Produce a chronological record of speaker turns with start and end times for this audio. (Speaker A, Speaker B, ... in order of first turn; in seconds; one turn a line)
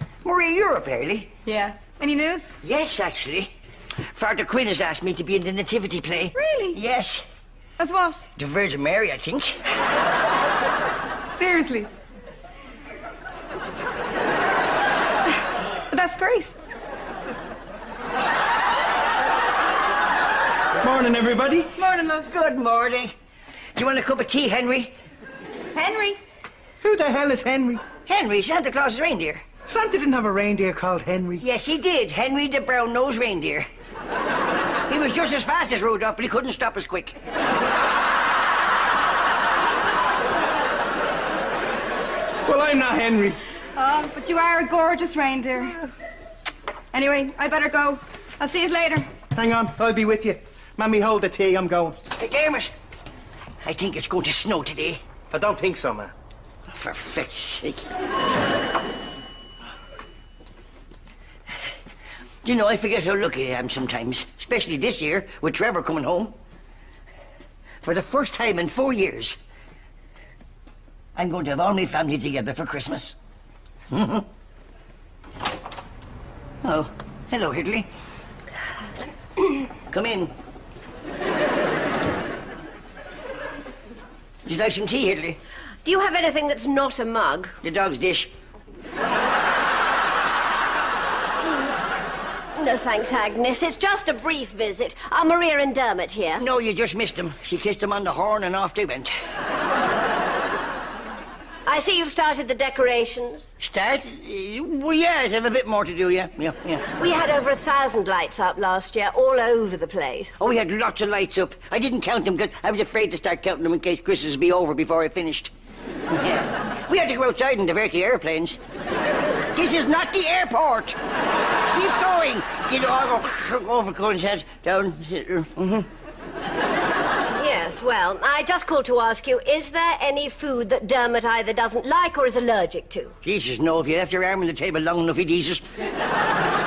Speaker A: 0.2-1.3
Speaker B: 1.4-2.5
Speaker A: 2.6-3.5
Speaker A: 4.1-7.2
Speaker B: 6.3-6.8
Speaker B: 7.8-8.3
Speaker A: 8.4-9.6
Speaker B: 11.3-11.9
Speaker B: 15.9-16.5
Speaker C: 20.8-21.7
Speaker B: 21.8-22.3
Speaker A: 22.2-23.1
Speaker A: 23.7-24.9
Speaker B: 25.7-26.2
Speaker C: 26.8-27.8
Speaker A: 28.1-29.4
Speaker C: 29.6-31.4
Speaker A: 31.4-33.7
Speaker A: 34.9-37.2
Speaker C: 42.4-43.4
Speaker B: 43.8-45.8
Speaker B: 46.9-49.1
Speaker C: 49.3-52.0
Speaker A: 52.1-52.7
Speaker A: 53.6-55.0
Speaker C: 55.3-56.1
Speaker A: 56.7-57.9
Speaker A: 62.4-66.3
Speaker A: 67.8-69.4
Speaker A: 71.1-73.2
Speaker A: 73.9-74.3
Speaker A: 76.6-77.9
Speaker A: 79.9-80.3
Speaker A: 84.4-85.4
Speaker D: 85.8-87.5
Speaker A: 87.6-88.3
Speaker D: 92.6-96.4
Speaker A: 96.3-99.1
Speaker D: 101.7-103.5
Speaker A: 103.6-106.8
Speaker D: 107.0-110.4
Speaker A: 110.4-115.5
Speaker A: 116.1-118.6
Speaker A: 119.5-121.0
Speaker A: 121.7-125.9
Speaker D: 127.3-133.1
Speaker A: 133.2-135.6